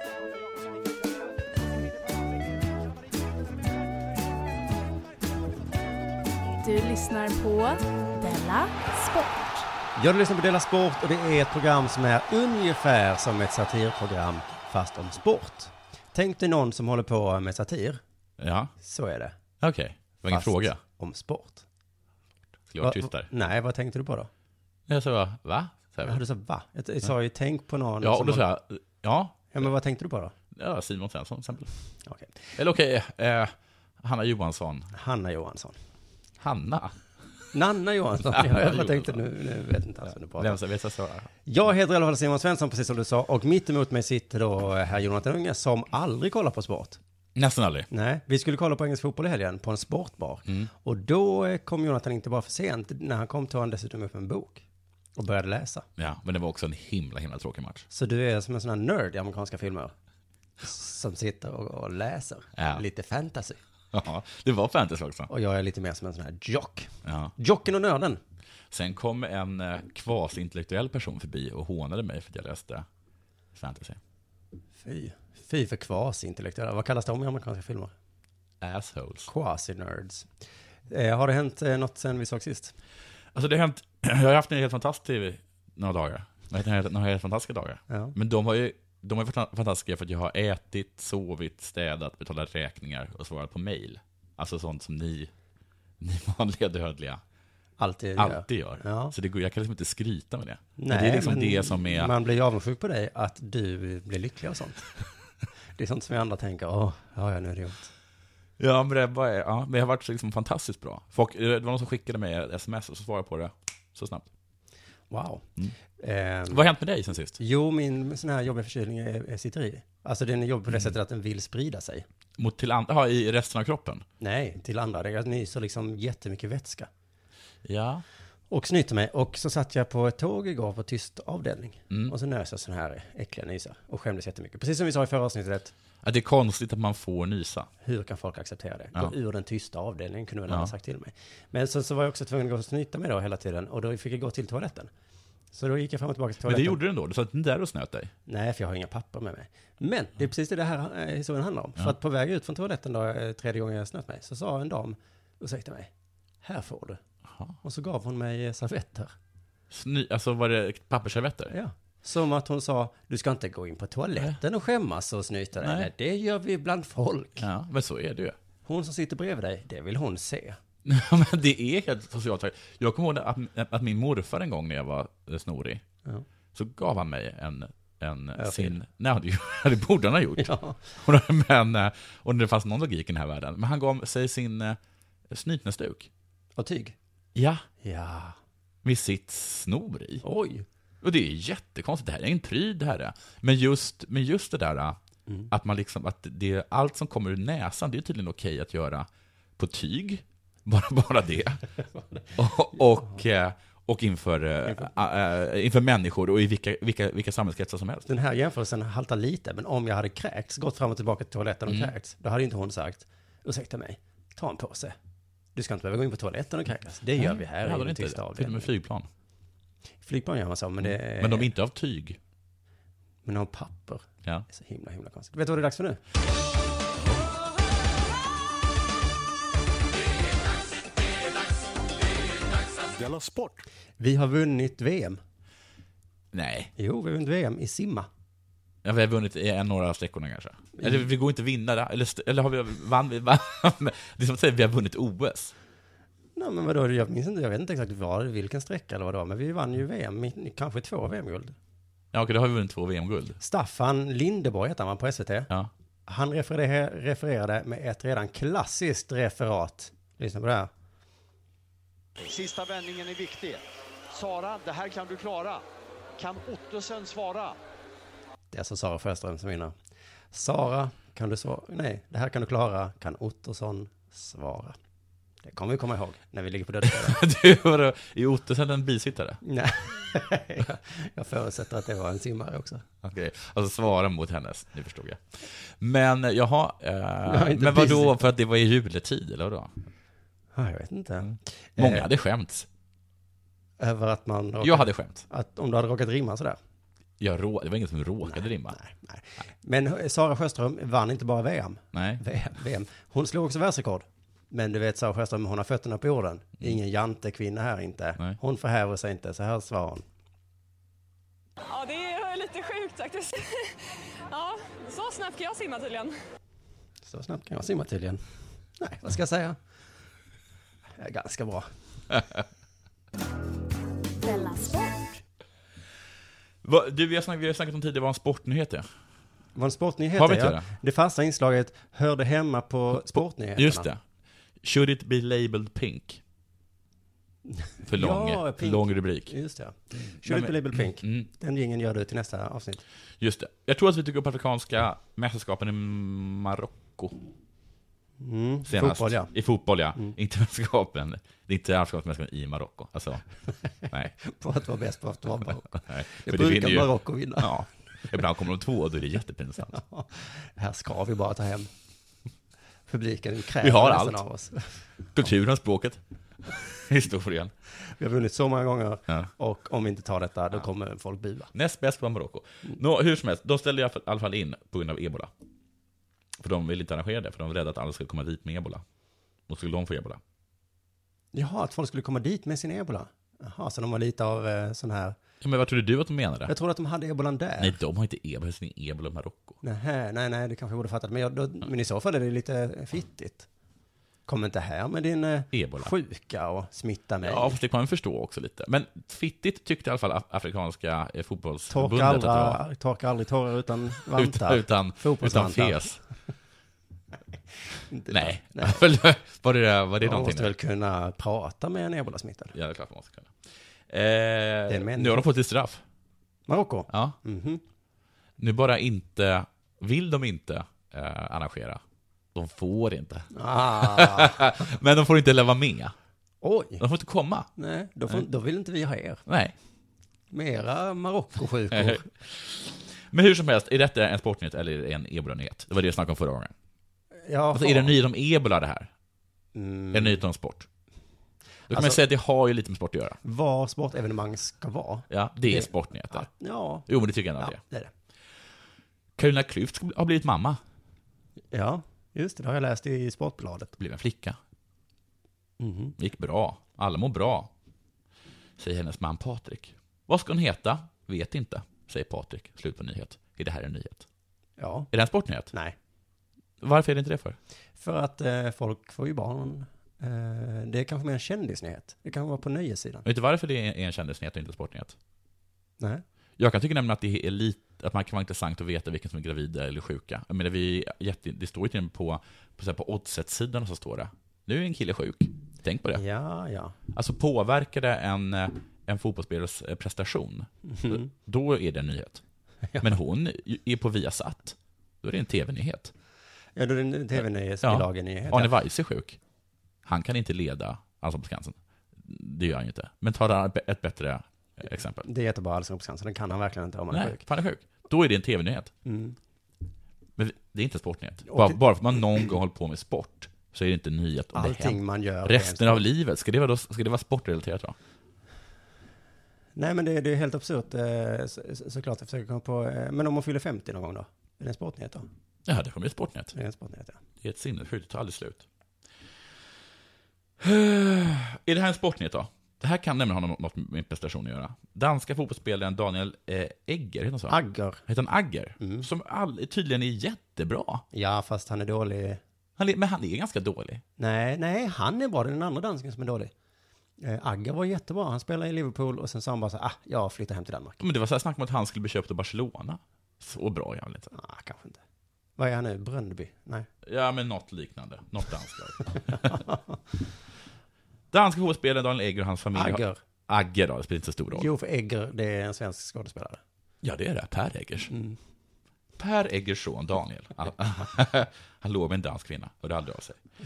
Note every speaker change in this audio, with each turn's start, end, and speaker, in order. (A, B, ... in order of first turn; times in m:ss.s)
0:06.6-0:09.7 A
0:10.0-0:18.0 B
0:18.4-0:18.7 C
0:18.8-0:19.3 B
0:19.6-0:20.8 C
0:20.2-0:21.6 B
0:22.7-0:23.3 C
0:22.8-0:24.3 B
0:24.9-0:26.2 C
0:26.0-0:28.5 B
0:28.0-0:29.5 C
0:29.5-0:30.3 B
0:30.5-0:31.7 C
0:32.0-0:32.6 B
0:32.6-0:34.9 C
0:34.9-0:35.8 B
0:36.4-0:37.0 C
0:37.5-0:40.6 B
0:38.3-0:39.2 C
0:40.4-0:41.3 C
0:41.4-0:47.0 B
0:47.4-0:47.9 C
0:47.9-0:54.6 B
0:55.2-0:55.8 B
0:56.0-0:57.8 C
0:57.9-0:59.9 B
1:00.6-1:03.6 B
1:02.6-1:02.8 C
1:03.9-1:05.3 C
1:05.3-1:08.2 B
1:07.0-1:07.3 C
1:08.7-1:12.9 C
1:13.5-1:14.0 C
1:14.8-1:17.9 B
1:18.6-1:19.3 C
1:19.3-1:20.3 B
1:20.9-1:22.7 B
1:23.3-1:35.3 C
1:27.9-1:28.2 B
1:36.0-1:37.2 C
1:37.8-1:39.1 B
1:38.2-1:42.1 C
1:40.8-1:44.8 B
1:45.8-1:47.9 B
1:48.6-1:54.3 C
1:55.1-1:56.6 B
1:56.5-1:57.4 C
1:57.4-2:02.0 B
2:02.4-2:04.0 C
2:04.2-2:06.9 B
2:07.6-2:08.0 C
2:08.5-2:15.7 B
2:16.0-2:17.7 C
2:17.8-2:24.9 B
2:25.5-2:26.8 B
2:26.4-2:28.1 C
2:28.2-2:37.0 B
2:37.6-2:39.1 B
2:39.7-2:41.5 C
2:41.5-2:47.5 B
2:45.6-2:45.9 C
2:47.4-2:48.4 C
2:48.6-2:50.6 B
2:50.8-2:55.8 C
2:56.5-3:06.1 C
2:58.4-2:58.8 B
3:00.4-3:00.8 B
3:06.6-3:07.0 B
3:07.3-3:07.6 C
3:07.8-3:08.4 B
3:08.8-3:10.2 C
3:10.2-3:10.6 B
3:11.0-3:15.0 C
3:15.5-3:21.6 C
3:22.4-3:28.1 C
3:28.0-3:34.9 B
3:31.7-3:31.9 C
3:35.5-3:38.7 B
3:37.2-3:39.1 C
3:40.0-3:41.5 B
3:40.8-3:42.2 C
3:43.2-3:46.0 B
3:53.0-3:53.6 D
3:54.0-3:55.2 B
3:56.3-3:56.7 C
3:56.8-3:58.1 B
3:58.8-4:05.5 C
4:00.8-4:01.0 B
4:06.4-4:11.5 B
4:12.1-4:13.4 C
4:13.4-4:15.5 B
4:16.1-4:20.7 B
4:22.2-4:25.6 D
4:26.2-4:27.6 D
4:28.5-4:29.7 B
4:30.3-4:34.8 B
4:35.4-4:37.2 B
4:36.8-4:39.4 C
4:39.4-4:42.8 B
4:43.0-4:49.7 C
4:47.2-4:48.2 B
4:50.5-4:52.1 B
4:51.8-4:52.7 C
4:53.8-4:56.6 B
4:54.6-4:55.2 C
4:57.2-4:58.8 C
4:58.2-5:10.0 B
5:01.9-5:02.2 C
5:11.7-5:16.1 E
5:17.0-5:18.2 B
5:18.8-5:19.6 B
5:21.0-5:21.7 B
5:24.2-5:25.2 A
5:26.6-5:28.8 C
5:29.5-5:33.9 B
5:30.1-5:30.6 C
5:33.1-5:34.0 C
5:34.6-5:36.2 C
5:37.5-5:42.8 B
5:37.8-5:39.3 C
5:40.2-5:41.3 C
5:43.2-5:47.2 C
5:48.2-5:49.3 B
5:48.7-5:53.2 C
5:53.9-5:54.1 C
5:53.9-5:57.5 B
5:55.7-5:59.8 C
5:59.7-6:01.7 B
6:02.9-6:04.8 B
6:03.6-6:04.2 C
6:05.1-6:07.5 C
6:07.8-6:11.5 B
6:11.5-6:15.3 C
6:16.4-6:18.8 C
6:19.5-6:20.2 C
6:21.3-6:25.1 B
6:25.4-6:26.5 C
6:26.5-6:27.8 B
6:27.6-6:29.6 C
6:29.6-6:33.5 B
6:34.3-6:37.6 B
6:35.5-6:35.9 C
6:37.2-6:42.6 C
6:41.7-6:46.0 B
6:44.1-6:46.0 C
6:47.9-6:48.8 B
6:48.1-6:50.5 C
6:50.0-6:52.5 B
6:52.5-6:53.3 C
6:53.9-6:55.8 C
6:54.7-6:55.2 B
6:56.5-6:57.6 B
6:56.9-6:57.2 C
6:58.4-7:01.8 C
7:02.3-7:05.9 C
7:03.3-7:04.5 B
7:06.4-7:06.8 B
7:06.8-7:07.5 C
7:07.6-7:09.2 B
7:09.3-7:09.5 C
7:10.3-7:12.1 B
7:11.7-7:16.5 C
7:17.2-7:17.9 B
7:17.5-7:18.9 C
7:19.5-7:20.2 B
7:19.9-7:20.7 C
7:21.7-7:23.2 C
7:21.7-7:22.0 B
7:23.2-7:27.9 B
7:25.1-7:26.3 C
7:26.9-7:27.6 C
7:29.2-7:30.6 C
7:31.5-7:33.8 B
7:33.8-7:34.4 C
7:35.6-7:36.0 B
7:36.0-7:37.5 C
7:38.6-7:44.0 C
7:44.6-7:44.9 B
7:44.9-7:45.5 C
7:46.6-7:47.4 C
7:47.8-7:53.0 B
7:53.0-7:54.9 C
7:56.4-8:06.0 C
8:05.9-8:06.7 B
8:06.9-8:12.2 C
8:10.6-8:11.1 B
8:12.8-8:15.9 C
8:16.6-8:18.5 B
8:17.6-8:19.2 C
8:19.8-8:25.1 C
8:25.0-8:27.2 B
8:26.9-8:28.7 C
8:28.8-8:29.2 B
8:30.2-8:37.8 C
8:31.3-8:31.6 B
8:34.3-8:35.8 B
8:39.6-8:45.1 B
8:45.5-8:46.3 C
8:46.3-8:47.0 B
8:47.2-8:48.4 C
8:50.4-9:00.8 C
8:57.3-8:57.8 B
8:58.6-8:58.9 B
9:00.9-9:02.2 B
9:02.6-9:03.8 C
9:04.0-9:06.3 B
9:07.0-9:10.8 B
9:10.8-9:14.1 C
9:14.1-9:14.8 B
9:15.4-9:16.7 B
9:16.8-9:19.4 C
9:19.0-9:19.8 B
9:21.1-9:24.5 C
9:22.5-9:23.0 B
9:24.3-9:26.4 B
9:26.8-9:27.9 C
9:27.9-9:28.2 B
9:29.0-9:33.2 C